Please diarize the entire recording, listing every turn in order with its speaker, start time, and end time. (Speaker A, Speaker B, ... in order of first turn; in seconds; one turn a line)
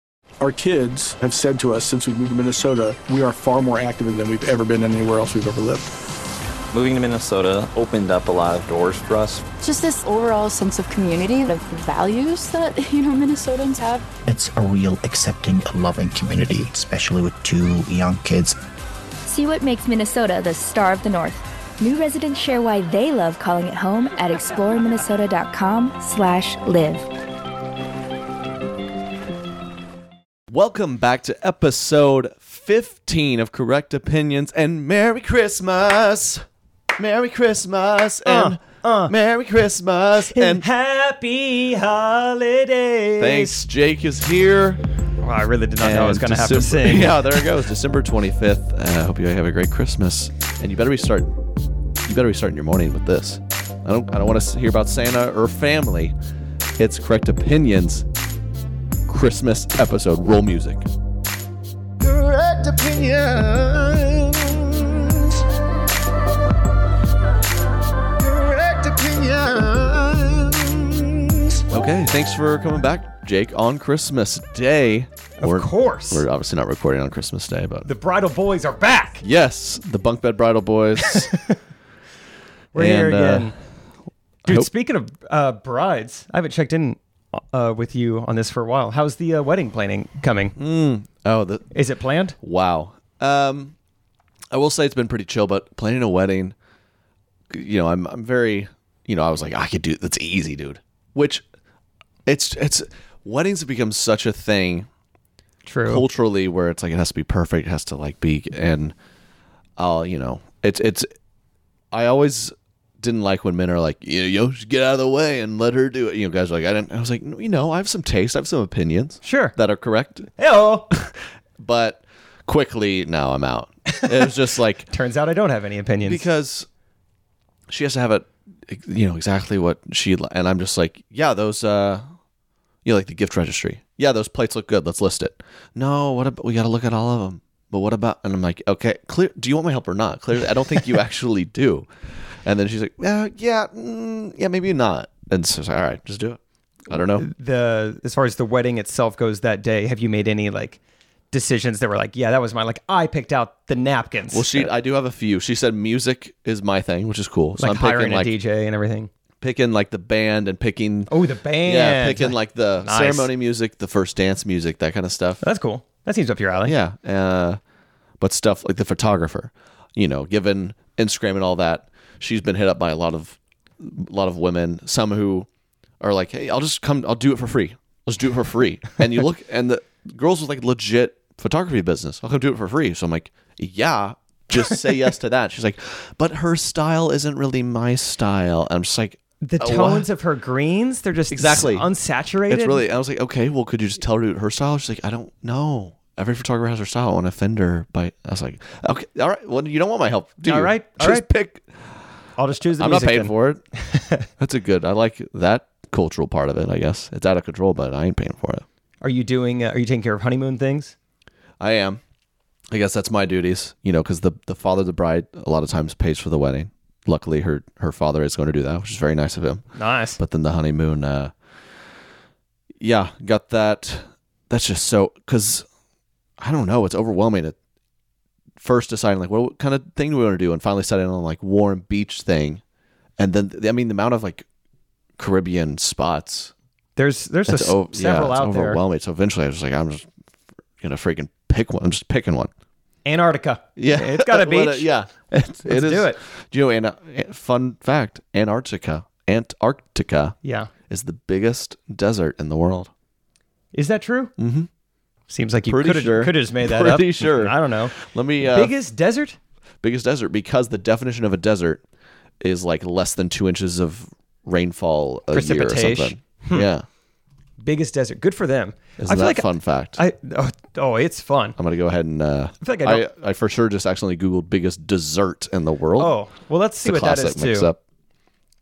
Speaker A: 0.4-5.9
Speaker B: 6.7-9.4
Speaker C: 9.6-14.1
Speaker D: 14.3-18.6
Speaker E: 19.3-27.1
Speaker F: 30.5-36.5
Speaker F: 37.0-40.7
Speaker G: 38.3-39.1
Speaker G: 40.3-43.6
Speaker F: 43.2-44.8
Speaker G: 45.2-47.4
Speaker F: 45.8-51.3
Speaker F: 52.0-56.1
Speaker F: 56.8-58.1
Speaker F: 59.1-60.9
Speaker F: 62.0-65.5
Speaker F: 68.2-77.9
Speaker G: 75.4-76.2
Speaker G: 77.8-79.2
Speaker F: 79.2-81.4
Speaker G: 81.1-81.6
Speaker G: 82.7-83.5
Speaker F: 82.7-83.5
Speaker F: 84.4-84.7
Speaker G: 84.5-90.6
Speaker F: 90.6-91.7
Speaker G: 91.7-92.4
Speaker F: 92.4-93.7
Speaker F: 94.5-96.5
Speaker F: 97.5-101.5
Speaker F: 102.3-104.9
Speaker G: 105.7-106.0
Speaker F: 105.9-108.9
Speaker F: 109.8-111.1
Speaker F: 111.9-120.3
Speaker G: 119.2-119.6
Speaker G: 120.4-120.9
Speaker F: 120.9-124.9
Speaker G: 124.0-124.2
Speaker G: 124.9-126.2
Speaker F: 126.1-126.7
Speaker F: 127.7-132.1
Speaker F: 132.8-141.9
Speaker F: 142.4-147.3
Speaker G: 147.2-150.8
Speaker G: 151.3-154.7
Speaker F: 154.3-158.3
Speaker G: 157.6-159.1
Speaker F: 159.4-161.1
Speaker G: 161.1-163.3
Speaker F: 161.6-165.4
Speaker G: 165.4-166.8
Speaker F: 166.6-167.6
Speaker F: 168.2-175.5
Speaker F: 176.0-190.1
Speaker G: 189.4-192.8
Speaker F: 191.3-191.9
Speaker F: 192.5-201.7
Speaker G: 200.4-201.3
Speaker G: 202.4-204.3
Speaker F: 202.8-203.6
Speaker F: 204.4-208.7
Speaker G: 209.0-210.9
Speaker F: 211.6-212.0
Speaker F: 212.7-221.3
Speaker G: 219.8-220.2
Speaker F: 222.8-225.7
Speaker F: 226.4-227.6
Speaker F: 228.6-232.6
Speaker F: 233.2-234.5
Speaker F: 235.2-236.5
Speaker G: 237.0-238.8
Speaker F: 237.5-240.1
Speaker F: 240.8-242.5
Speaker G: 243.1-244.9
Speaker F: 243.8-250.4
Speaker G: 245.7-246.2
Speaker G: 250.4-250.7
Speaker F: 250.9-252.9
Speaker G: 253.7-254.3
Speaker F: 254.4-254.7
Speaker G: 255.3-259.4
Speaker F: 255.7-258.7
Speaker F: 259.8-261.8
Speaker F: 262.4-266.9
Speaker G: 265.3-266.7
Speaker G: 267.6-271.6
Speaker F: 269.0-270.0
Speaker F: 271.6-276.2
Speaker G: 272.6-273.1
Speaker G: 276.0-277.7
Speaker F: 276.8-277.8